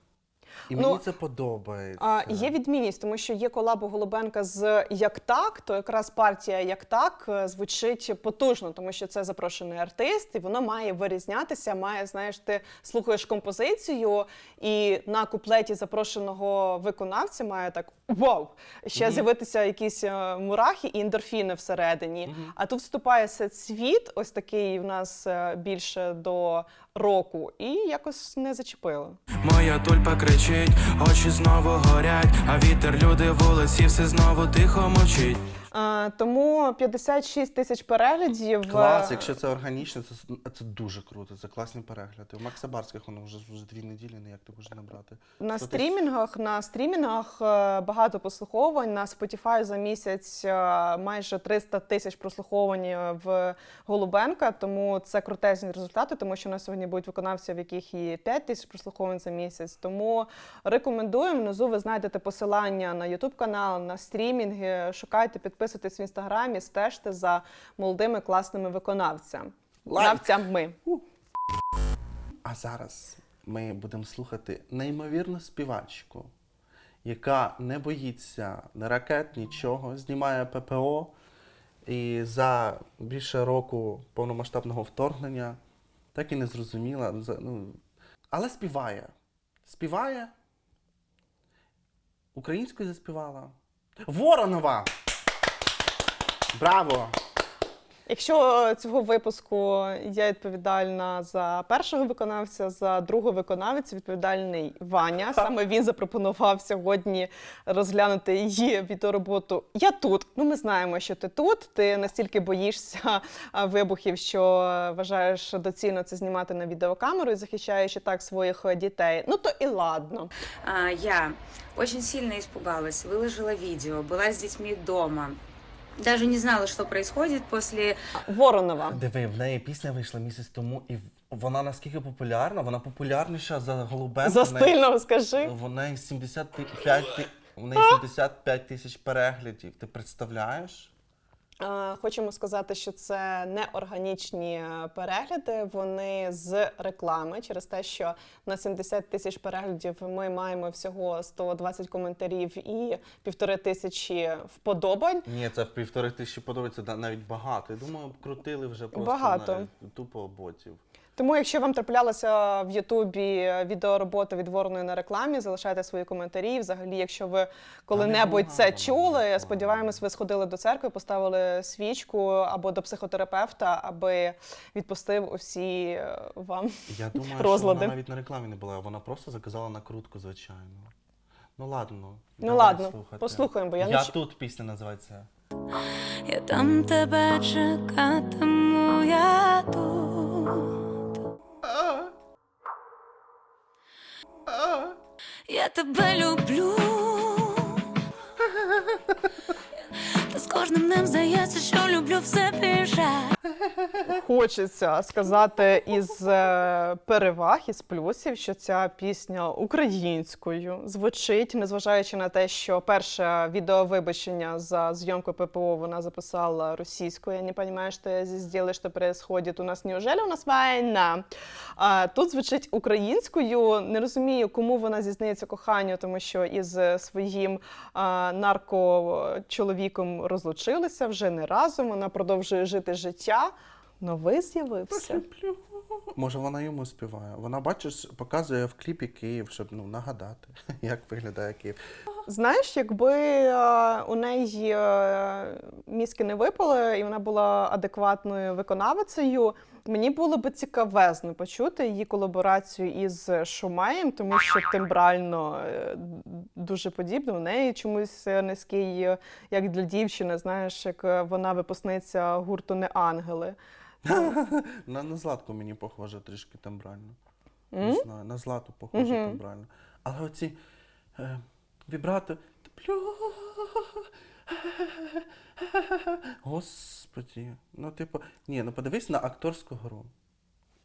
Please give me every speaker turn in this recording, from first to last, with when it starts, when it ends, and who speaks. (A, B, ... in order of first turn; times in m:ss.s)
0:00.7-0:02.5 A
0:00.7-0:01.0 B
0:02.0-0:29.2 B
0:18.9-0:19.2 A
0:22.2-0:22.5 A
0:29.4-0:35.4 C
0:35.7-0:39.4 B
0:38.7-0:46.0 A
0:45.4-1:10.8 B
1:09.9-1:11.0 A
1:12.4-1:16.3 A
1:17.0-1:21.1 A
1:21.8-1:25.6 A
1:26.1-1:29.1 A
1:29.6-1:30.3 A
1:32.3-1:34.9 A
1:36.5-1:37.2 A
1:38.1-2:00.3 B
2:00.6-2:05.4 D
2:06.0-2:08.0 D
2:08.2-2:09.0 B
2:08.9-2:14.8 A
2:14.2-2:15.5 B
2:15.4-2:20.9 A
2:21.6-2:35.3 B
2:35.2-2:40.8 A
2:38.9-2:39.7 B
2:41.2-2:57.9 B
2:47.9-2:50.0 A
2:56.9-3:00.9 A
3:01.6-3:05.3 A
3:02.4-3:04.1 B
3:06.2-3:10.9 E
3:11.6-3:12.1 A
3:14.5-3:15.0 A
3:15.5-3:17.9 E
3:18.6-3:19.0 A
3:19.9-3:23.3 E
3:23.4-3:24.2 A
3:24.0-3:41.2 B
3:41.8-3:55.2 B
3:54.9-4:01.8 A
4:02.3-4:23.6 B
4:24.0-4:27.2 A
4:27.7-4:28.0 B
4:27.8-4:30.6 A
4:28.9-4:29.4 B
4:31.2-4:40.1 A